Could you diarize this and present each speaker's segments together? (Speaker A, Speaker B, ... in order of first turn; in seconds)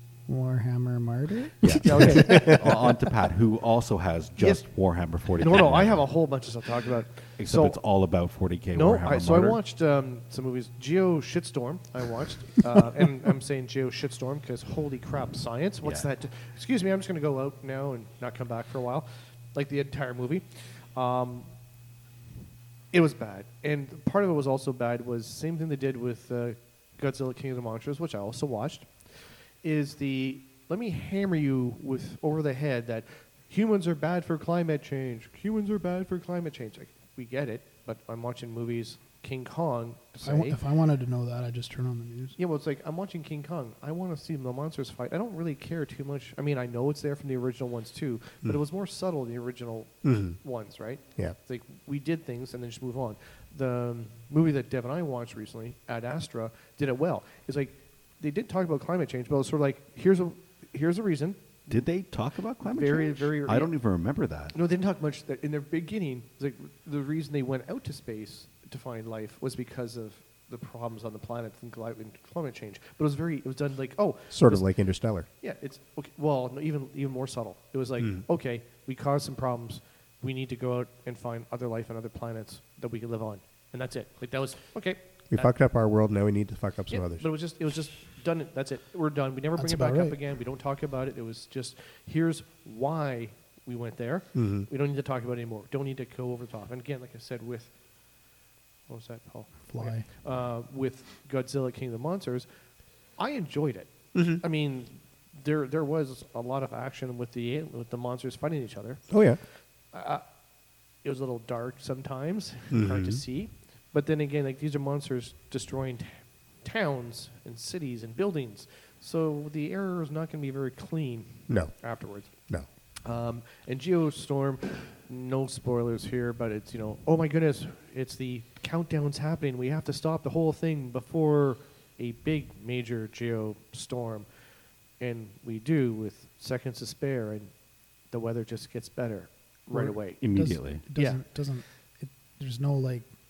Speaker A: 0.3-2.2, 40.2-42.4, 89.6-90.2, 99.7-100.0, 139.7-143.1
Speaker B: 1.6-6.1, 7.4-9.6, 15.8-16.1, 61.7-64.5, 140.2-140.8
Speaker C: 1.8-2.9, 4.4-7.8, 8.7-21.5, 22.9-40.6, 42.4-61.8, 62.6-63.8, 64.5-85.5, 86.9-97.7, 98.9-102.5, 103.0-109.3, 109.8-110.2, 111.0-122.5, 123.0-134.3, 134.9-140.4, 140.9-141.2
Speaker D: 50.0-50.4, 74.3-75.3, 85.3-87.3, 94.3-94.7, 104.1-104.4, 109.1-109.4, 112.7-113.2, 121.5-121.8